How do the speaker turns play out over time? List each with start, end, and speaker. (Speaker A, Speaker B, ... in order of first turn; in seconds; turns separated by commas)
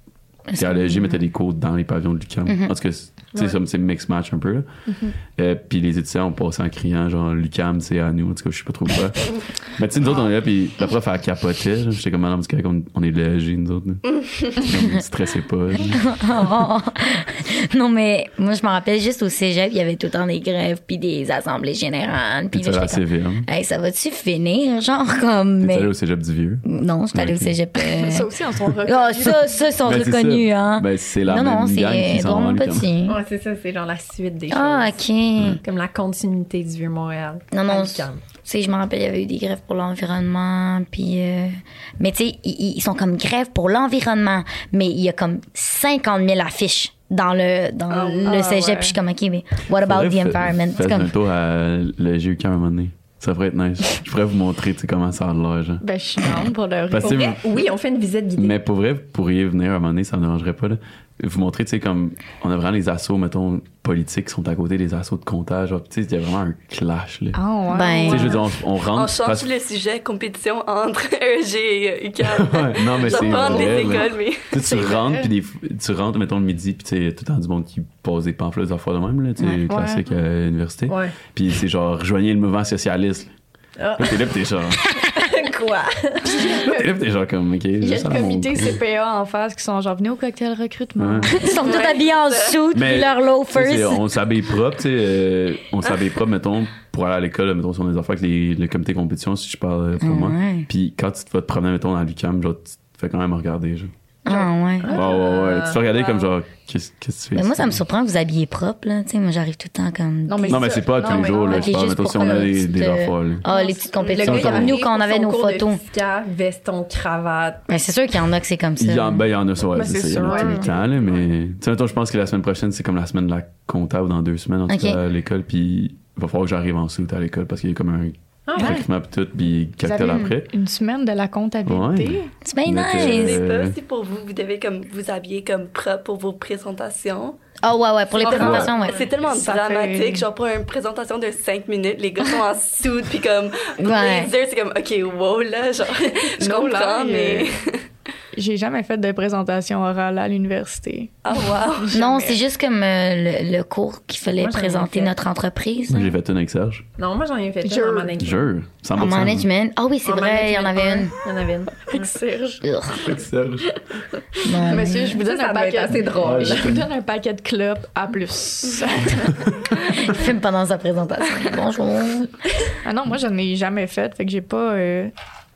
Speaker A: 0.5-1.2, Speaker B: 0.6-4.7, Speaker A: 2.5-2.7, Speaker C: 4.9-5.1, Speaker B: 5.4-16.0, Speaker A: 14.6-15.0, Speaker A: 15.8-25.9, Speaker B: 22.5-23.4, Speaker B: 25.6-27.6, Speaker A: 26.6-33.2, Speaker C: 27.8-29.6, Speaker B: 29.8-32.9, Speaker D: 33.0-35.0, Speaker A: 34.5-35.6, Speaker D: 35.6-38.2, Speaker A: 37.5-51.1, Speaker E: 47.9-48.4, Speaker C: 48.2-49.0, Speaker B: 49.7-56.3, Speaker C: 55.8-57.3, Speaker B: 56.9-57.4, Speaker D: 57.0-58.6, Speaker B: 58.4-67.4, Speaker C: 67.3-68.4, Speaker A: 67.7-68.3, Speaker B: 68.0-69.5, Speaker E: 68.9-74.6, Speaker B: 72.2-83.3, Speaker C: 73.3-73.9, Speaker C: 74.6-75.3, Speaker C: 79.7-80.0, Speaker D: 80.9-81.1, Speaker D: 83.8-84.2, Speaker B: 84.0-84.9, Speaker D: 85.1-86.7, Speaker C: 86.3-86.9, Speaker B: 86.6-88.8, Speaker C: 87.8-91.8, Speaker B: 91.0-91.4, Speaker A: 91.3-94.0, Speaker E: 91.6-92.6, Speaker B: 92.7-103.9, Speaker A: 100.0-100.7, Speaker A: 104.2-105.1, Speaker D: 104.8-105.8, Speaker B: 104.9-107.8, Speaker E: 105.9-106.2, Speaker A: 107.3-115.8, Speaker C: 110.3-111.7, Speaker B: 110.5-113.5, Speaker D: 111.0-112.5, Speaker D: 113.5-117.7, Speaker C: 113.5-113.8, Speaker E: 114.0-114.3, Speaker B: 114.2-114.8, Speaker A: 117.7-119.2, Speaker B: 118.8-130.5, Speaker C: 119.7-120.7, Speaker D: 120.2-120.9, Speaker A: 124.7-125.0, Speaker D: 128.5-128.8, Speaker C: 128.6-128.9, Speaker C: 129.8-132.3, Speaker B: 131.7-133.8, Speaker A: 132.4-133.4, Speaker E: 132.9-137.4, Speaker A: 137.6-139.1, Speaker E: 138.2-147.8, Speaker C: 138.2-140.3, Speaker B: 138.4-138.7, Speaker A: 143.8-144.3, Speaker C: 146.4-147.5, Speaker C: 148.3-152.4, Speaker E: 151.2-151.9, Speaker A: 151.9-156.1, Speaker D: 154.4-155.1, Speaker B: 155.9-156.9, Speaker D: 157.0-158.5, Speaker C: 157.6-158.2, Speaker B: 158.2-159.5, Speaker A: 158.9-161.1, Speaker D: 160.1-162.1, Speaker C: 160.5-161.0, Speaker C: 161.9-162.7, Speaker A: 162.6-163.1, Speaker B: 162.9-163.8, Speaker A: 164.4-165.2, Speaker C: 164.6-169.4, Speaker D: 165.2-166.8, Speaker B: 166.2-166.9, Speaker A: 169.9-172.3, Speaker C: 172.8-175.1